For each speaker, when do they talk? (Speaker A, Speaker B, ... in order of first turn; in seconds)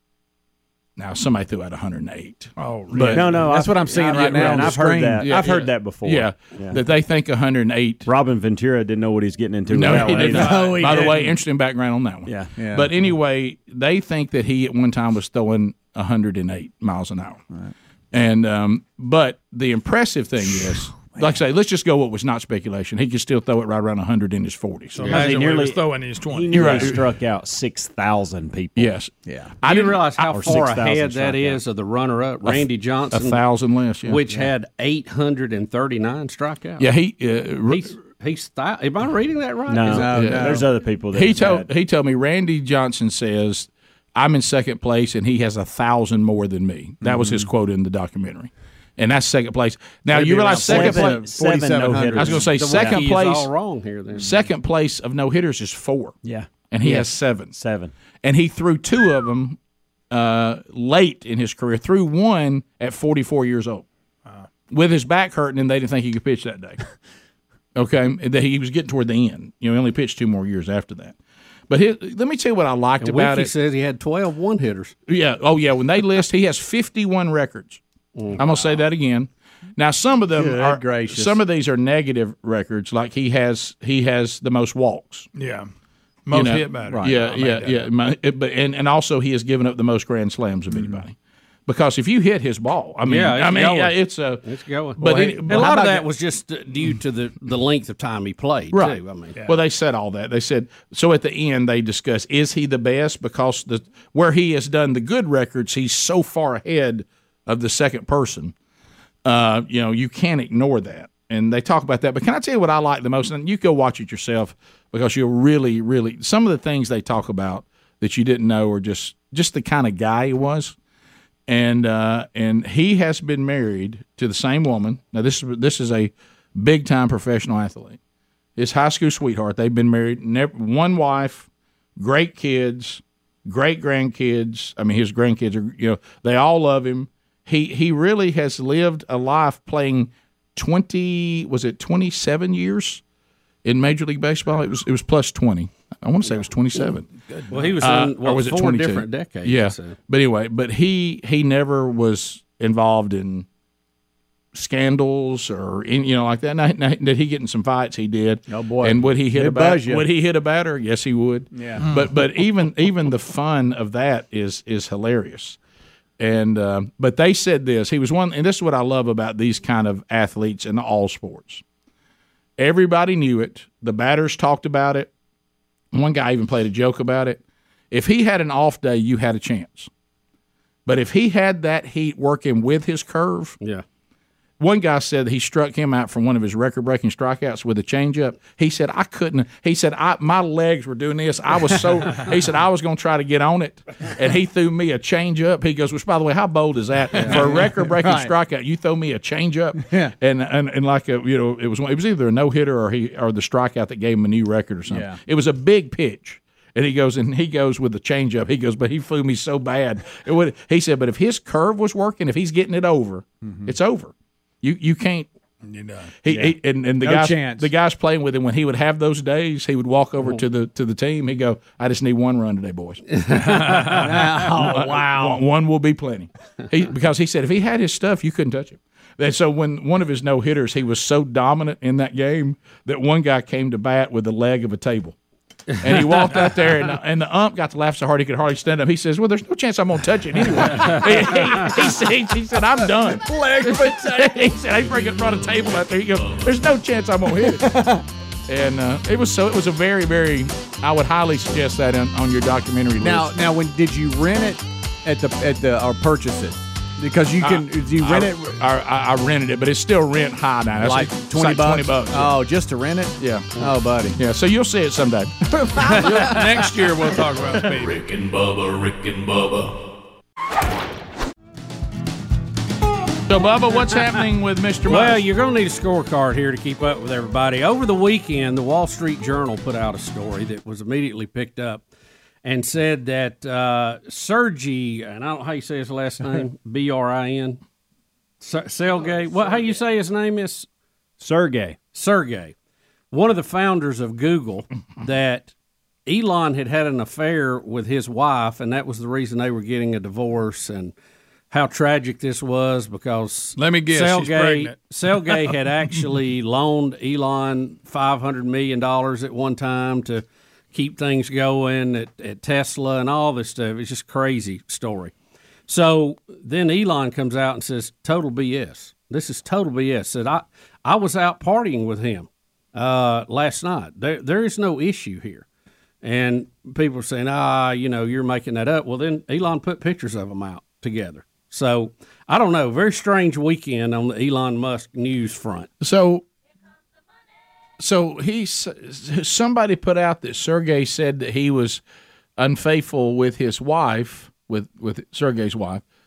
Speaker A: 1.0-3.4, 4.1-8.1, 9.7-17.4, 18.1-25.2, 26.5-27.1, 28.8-30.6, 32.5-34.2, 36.8-37.9, 40.1-53.5, 54.1-56.1, 56.7-57.6, 58.2-59.6, 60.1-63.8, 64.7-66.8, 67.7-71.2, 71.7-73.5, 75.1-77.8, 78.3-85.3, 86.3-91.2, 91.7-94.4, 95.0-96.0, 98.7-108.5, 109.2-120.8, 121.5-128.0, 128.6-143.0, 143.6-147.1, 147.8-153.4, 154.5-165.6, 166.2-171.6, 172.6-175.1, 175.9-179.9, 180.8-183.6, 184.6-215.3, 216.2-223.0, 224.4-235.2, 235.8-247.9, 248.5-253.3, 257.4-262.4, 263.2-263.6, 264.1-266.4, 273.3-275.2, 335.8-336.2, 337.8-341.8, 342.4-345.8
Speaker B: 2.6-3.5, 10.3-10.8, 25.0-27.0, 85.3-85.7, 86.2-87.8, 147.3-147.7, 161.8-162.1, 215.6-216.1, 223.4-224.1, 265.8-267.9, 303.6-305.5
Speaker C: 3.0-6.8, 8.0-10.8, 12.2-12.5, 25.0-28.9, 30.2-31.6, 39.7-41.7, 47.0-47.4, 50.1-53.0, 56.2-57.9, 291.2-291.8
Speaker D: 3.3-5.3, 9.9-11.3, 12.6-13.1, 39.9-40.7, 50.1-52.4, 80.3-81.4, 86.9-87.1, 95.0-96.0, 158.5-160.1, 161.5-161.8, 197.2-198.3, 199.8-200.1, 204.9-205.2, 213.4-213.7, 216.3-217.7, 223.9-225.4, 243.6-244.2, 247.4-248.0, 253.0-258.6, 260.8-264.2
Speaker E: 29.6-33.4, 34.0-36.9, 37.7-40.1, 52.5-54.3, 73.0-74.9, 78.2-78.4, 93.0-99.3, 147.5-149.9, 223.1-224.0, 274.9-281.8, 282.4-287.6, 288.4-290.7, 291.9-292.5, 293.1-295.5, 296.1-300.9, 301.5-315.1, 315.7-325.4, 326.0-335.7
Speaker F: 267.7-269.7